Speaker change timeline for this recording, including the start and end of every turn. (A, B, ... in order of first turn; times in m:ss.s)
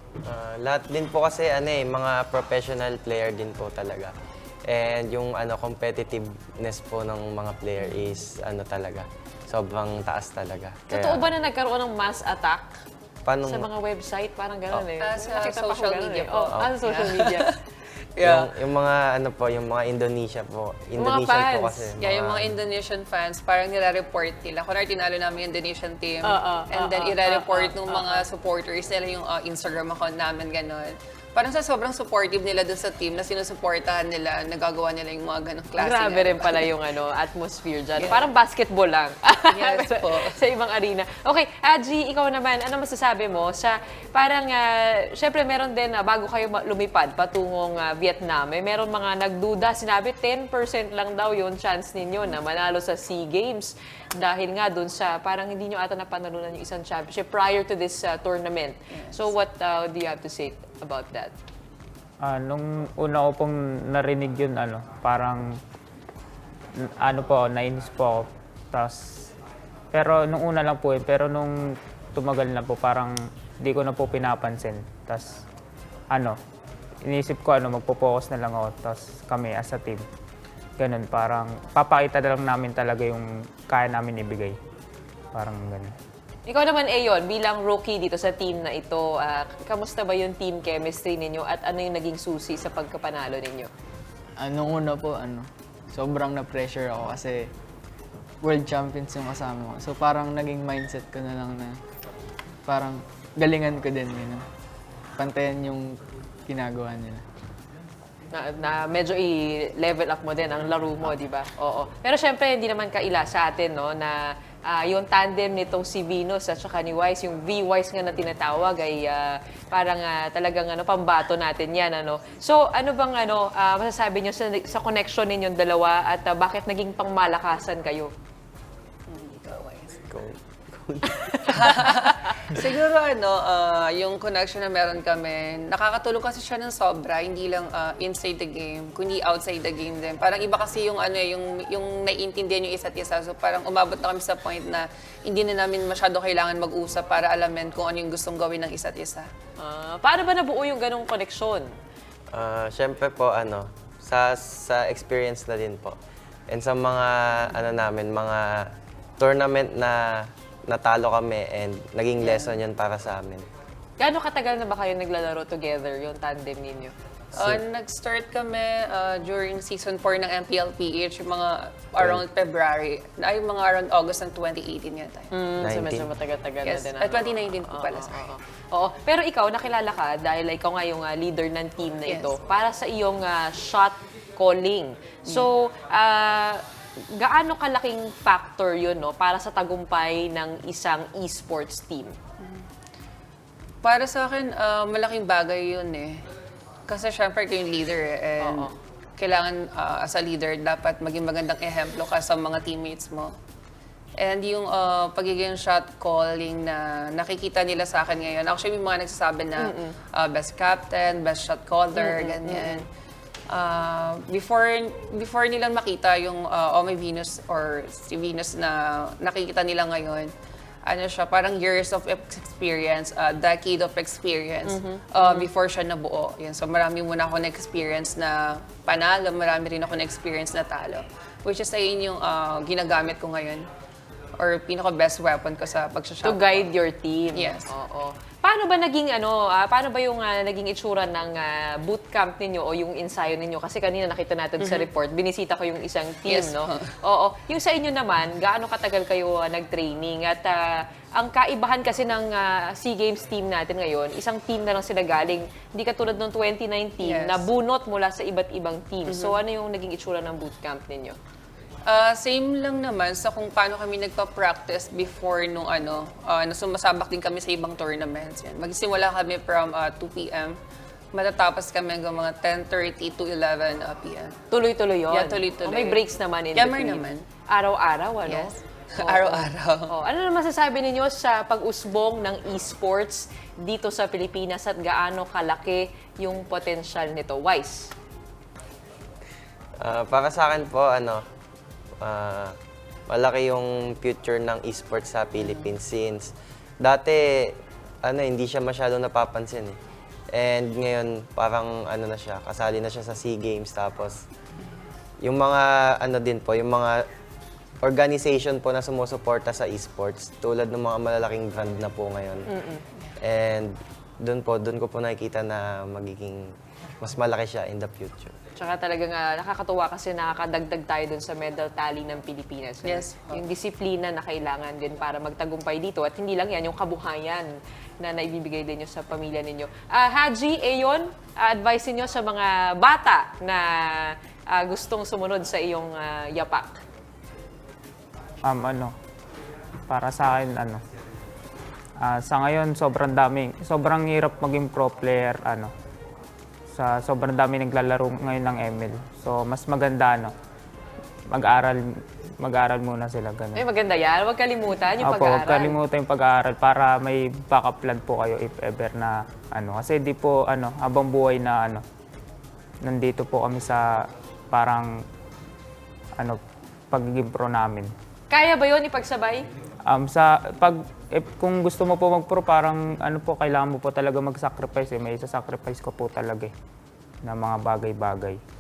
0:00.2-0:04.1 A
0:04.7-0:11.2 A
0:10.9-0:12.7 B
0:13.2-0:13.7 A
0:13.5-0:17.5 B
0:15.1-0:17.6 C
0:18.2-0:18.4 C
0:18.2-0:22.6 A
0:21.0-0:21.9 B
0:22.0-0:36.7 C
0:26.2-0:28.2 B
0:35.8-1:01.3 B
0:38.0-0:38.3 C
0:39.5-0:40.4 C
0:58.9-0:59.3 C
1:02.2-1:05.5 D
1:07.0-1:09.0 D
1:09.9-1:11.5 D
1:12.2-1:15.4 D
1:16.1-1:16.4 D
1:17.0-1:20.0 D
1:20.8-1:24.6 D
1:25.3-1:25.9 D
1:26.5-1:33.7 B
1:34.4-1:37.5 E
1:38.4-1:41.8 E
1:42.7-1:44.5 E
1:45.2-1:47.2 E
1:48.3-2:08.1 B
2:09.1-2:10.0 C
2:10.1-2:11.2 A
2:11.2-2:12.3 B
2:11.5-2:29.3 C
2:29.6-2:31.7 B
2:32.3-2:36.0 A
2:36.5-2:38.7 A
2:39.2-2:40.0 A
2:40.7-2:43.4 A
2:42.2-2:42.5 C
2:44.0-2:46.9 B
2:47.4-2:47.6 A
2:47.4-2:55.3 C
2:52.0-2:52.3 A
2:55.3-3:06.6 B
2:55.6-2:56.1 A
2:56.6-2:58.3 C
3:02.1-3:02.3 C
3:07.2-3:12.2 B
3:13.8-3:16.2 C
3:16.9-3:23.3 C
3:18.4-3:18.7 B
3:24.2-3:32.8 C
3:29.6-3:30.0 B
3:32.0-3:32.8 B
3:33.5-3:40.3 C
3:40.9-3:53.6 C
3:44.6-3:45.5 B
3:54.4-3:56.6 C
3:56.2-4:10.6 B
3:57.3-3:57.7 C
4:04.6-4:04.9 C
4:06.3-4:06.9 C
4:11.2-4:21.2 B
4:17.0-4:17.5 C
4:19.1-4:19.4 C
4:21.9-4:30.6 C
4:31.1-4:34.3 C
4:34.5-4:47.9 B
4:35.1-4:36.0 C
4:36.6-4:37.2 C
4:38.2-4:39.9 C
4:49.8-4:51.2 A
4:52.0-4:52.5 A
4:53.1-4:59.8 A
5:00.3-5:04.2 A
5:05.2-5:07.0 A
5:07.8-5:12.5 A
5:12.5-5:12.8 B
5:13.2-5:16.4 A
5:17.0-5:18.3 A
5:18.6-5:36.8 B
5:22.8-5:23.4 C
5:38.4-5:38.9 D
5:39.9-5:40.8 D
5:42.0-5:45.7 D
5:46.7-5:50.3 D
5:51.3-5:51.8 D
5:52.4-5:53.6 D
5:53.6-5:55.8 B
5:55.0-6:01.8 D
6:02.8-6:03.8 D
6:04.5-6:04.9 D
6:06.9-6:07.9 D
6:08.3-6:09.5 B
6:09.9-6:16.5 D
6:17.2-6:18.4 D